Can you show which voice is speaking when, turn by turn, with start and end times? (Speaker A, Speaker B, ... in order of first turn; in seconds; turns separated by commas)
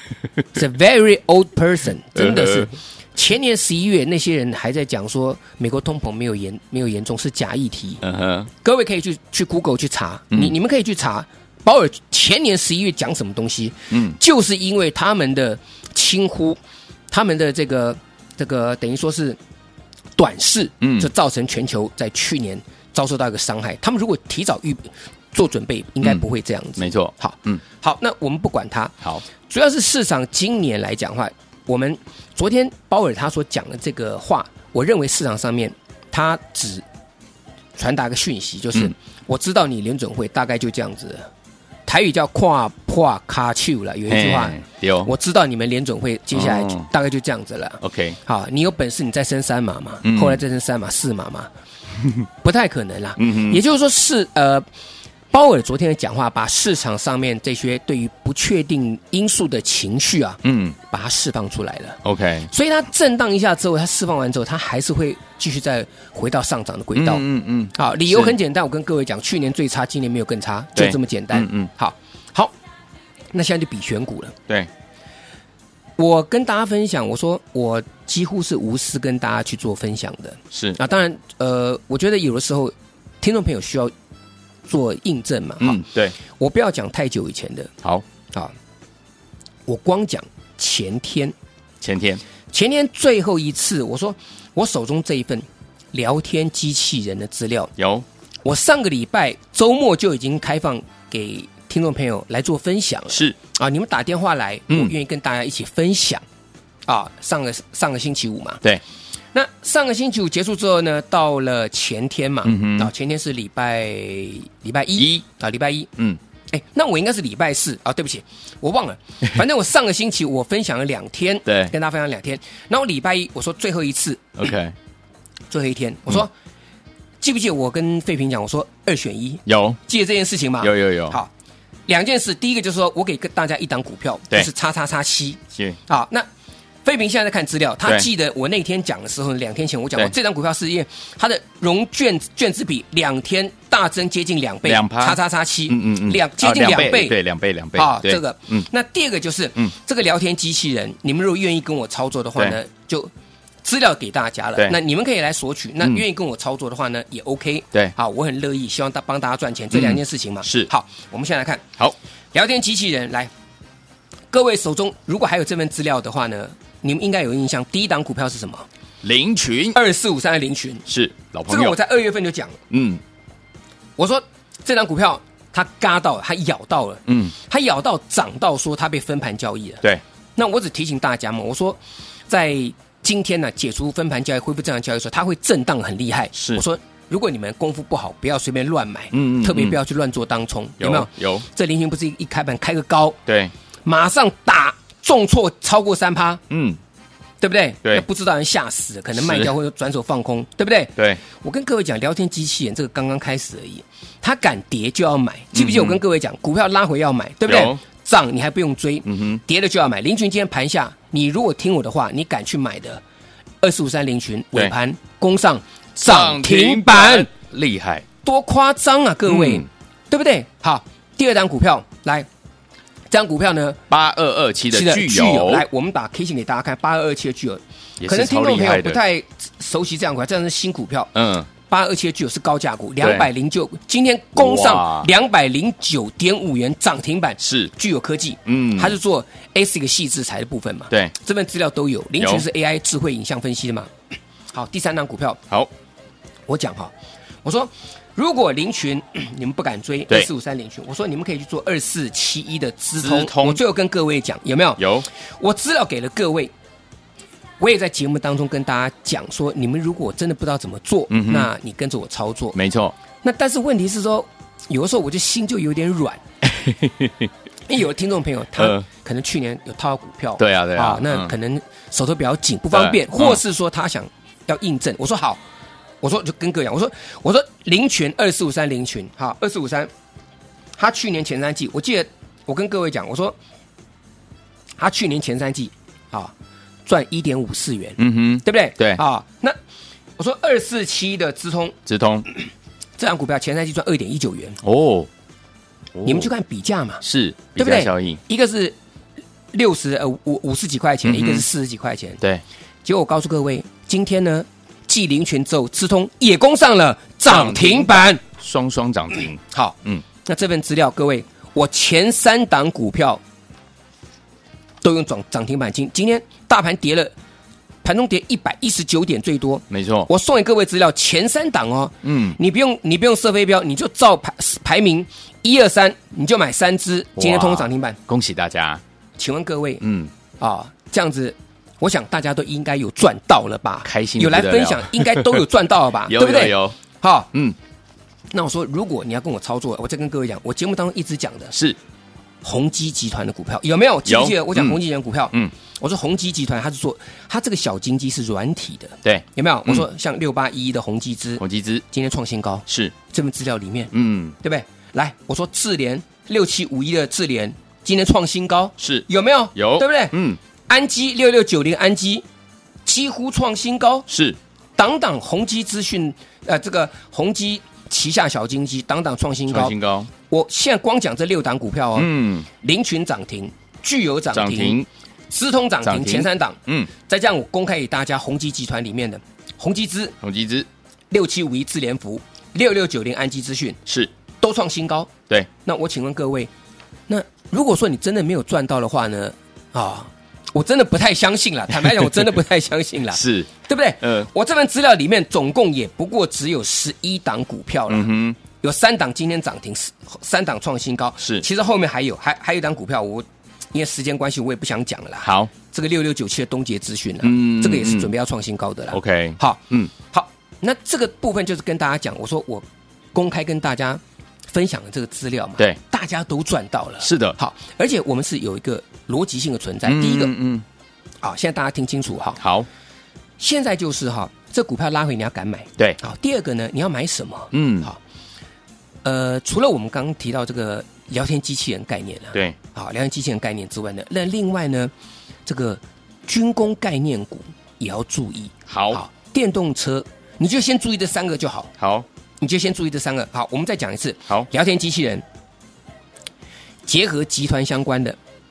Speaker A: 0.5-8.0, Speaker B: 2.1-2.7, Speaker B: 8.0-8.5, Speaker A: 8.6-16.6, Speaker B: 13.9-14.2, Speaker A: 17.1-19.4, Speaker A: 20.2-36.8, Speaker B: 20.8-21.1, Speaker B: 26.8-27.6, Speaker A: 37.8-41.3, Speaker A: 41.9-51.5, Speaker B: 44.1-45.1, Speaker B: 46.3-46.9, Speaker B: 47.8-48.2, Speaker B: 50.0-50.4, Speaker A: 52.4-54.6, Speaker B: 53.2-53.6, Speaker A: 55.3-67.2, Speaker B: 60.4-60.8, Speaker B: 62.0-62.5, Speaker B: 67.0-68.3, Speaker A: 67.7-72.5, Speaker B: 70.8-71.7, Speaker A: 73.3-74.3, Speaker A: 76.0-83.9, Speaker B: 80.5-80.8, Speaker A: 84.7-87.7, Speaker B: 85.6-86.2, Speaker A: 89.7-91.3, Speaker B: 91.8-92.2, Speaker A: 92.5-97.7, Speaker B: 97.8-98.0, Speaker A: 98.4-106.2, Speaker A: 106.9-108.6, Speaker A: 109.3-115.9, Speaker B: 112.4-112.9, Speaker B: 115.0-115.2, Speaker A: 116.5-124.4, Speaker B: 121.5-121.7, Speaker B: 124.4-124.7, Speaker A: 125.5-126.3, Speaker A: 127.2-131.3, Speaker B: 129.4-129.8, Speaker B: 130.6-131.2, Speaker A: 131.9-136.3, Speaker A: 136.8-147.2, Speaker B: 144.6-148.7, Speaker A: 147.7-153.1, Speaker A: 153.6-161.6, Speaker B: 159.7-160.7, Speaker A: 162.3-163.3, Speaker A: 164.3-168.7, Speaker B: 169.0-169.8, Speaker A: 169.7-170.8, Speaker B: 170.9-171.8, Speaker A: 171.5-172.6, Speaker B: 172.7-173.0, Speaker A: 174.0-179.8, Speaker B: 177.1-177.3, Speaker A: 180.3-193.2, Speaker B: 186.3-186.6, Speaker B: 189.1-189.8, Speaker B: 190.8-191.4, Speaker B: 193.3-193.5, Speaker A: 193.8-196.4, Speaker B: 196.5-196.8, Speaker A: 197.4-213.0, Speaker B: 199.2-199.5, Speaker B: 201.0-201.2, Speaker B: 205.5-206.0, Speaker B: 207.4-207.8, Speaker B: 209.1-209.4, Speaker A: 213.6-217.3, Speaker B: 216.0-218.0, Speaker A: 218.2-222.3, Speaker B: 219.3-219.6, Speaker A: 223.1-223.8, Speaker B: 223.9-225.6, Speaker A: 224.7-243.9, Speaker B: 228.0-229.0, Speaker B: 231.1-231.5, Speaker B: 233.0-233.3, Speaker B: 234.4-235.1, Speaker B: 237.4-237.7, Speaker B: 238.5-238.9, Speaker B: 242.2-242.4, Speaker A: 244.5-245.4, Speaker A: 246.5-246.9, Speaker A: 247.4-256.5, Speaker B: 253.0-253.6, Speaker B: 254.8-255.1, Speaker A: 257.6-262.6, Speaker B: 261.1-261.5, Speaker B: 262.5-262.9, Speaker A: 263.2-266.2, Speaker B: 266.4-267.3, Speaker A: 267.7-275.4, Speaker B: 268.6-268.9, Speaker B: 270.4-271.3, Speaker B: 272.7-273.4, Speaker A: 276.0-279.9, Speaker A: 280.8-283.4, Speaker A: 284.8-286.3, Speaker A: 286.9-289.6, Speaker B: 288.0-289.0, Speaker A: 290.2-291.8, Speaker B: 291.9-292.3, Speaker A: 293.0-294.6, Speaker B: 294.6-295.1, Speaker B: 295.9-296.3, Speaker A: 296.0-297.0, Speaker B: 297.0-298.2, Speaker A: 297.6-298.8, Speaker A: 299.5-302.2, Speaker B: 301.0-301.4, Speaker A: 302.8-308.2, Speaker B: 307.3-310.0, Speaker A: 309.5-313.2, Speaker A: 314.8-317.1, Speaker A: 317.8-328.0, Speaker B: 319.7-320.1, Speaker B: 322.0-322.4, Speaker B: 327.2-328.8, Speaker A: 329.2-329.8, Speaker B: 329.8-330.1, Speaker A: 330.4-337.3, Speaker B: 333.8-335.4, Speaker B: 336.1-336.8, Speaker A: 338.3-341.5, Speaker A: 342.4-360.1, Speaker B: 344.1-344.8, Speaker B: 349.0-349.8, Speaker B: 351.4-351.8, Speaker B: 352.7-352.9, Speaker B: 353.9-354.4, Speaker B: 358.8-360.4, Speaker A: 360.7-362.2, Speaker A: 362.9-364.1, Speaker B: 364.1-364.4, Speaker A: 364.8-369.7, Speaker B: 369.5-370.1, Speaker A: 370.3-374.8, Speaker B: 372.0-372.5, Speaker B: 374.3-374.9, Speaker A: 375.3-380.1, Speaker B: 375.8-376.9, Speaker B: 380.2-380.7, Speaker A: 381.1-383.8, Speaker A: 384.4-385.1, Speaker A: 385.6-386.5, Speaker A: 387.1-414.0, Speaker B: 393.1-393.5, Speaker B: 394.0-394.3, Speaker B: 397.9-398.4, Speaker B: 405.2-405.5, Speaker B: 407.2-408.1, Speaker B: 408.9-409.9, Speaker A: 414.5-420.3, Speaker B: 417.0-417.4, Speaker B: 419.8-420.6, Speaker A: 421.2-422.4, Speaker B: 422.4-422.7, Speaker A: 423.4-428.0, Speaker B: 427.5-427.9, Speaker A: 429.0-434.9, Speaker A: 435.4-441.7, Speaker B: 438.7-439.0, Speaker B: 441.8-442.1, Speaker A: 442.4-445.2, Speaker A: 446.9-448.2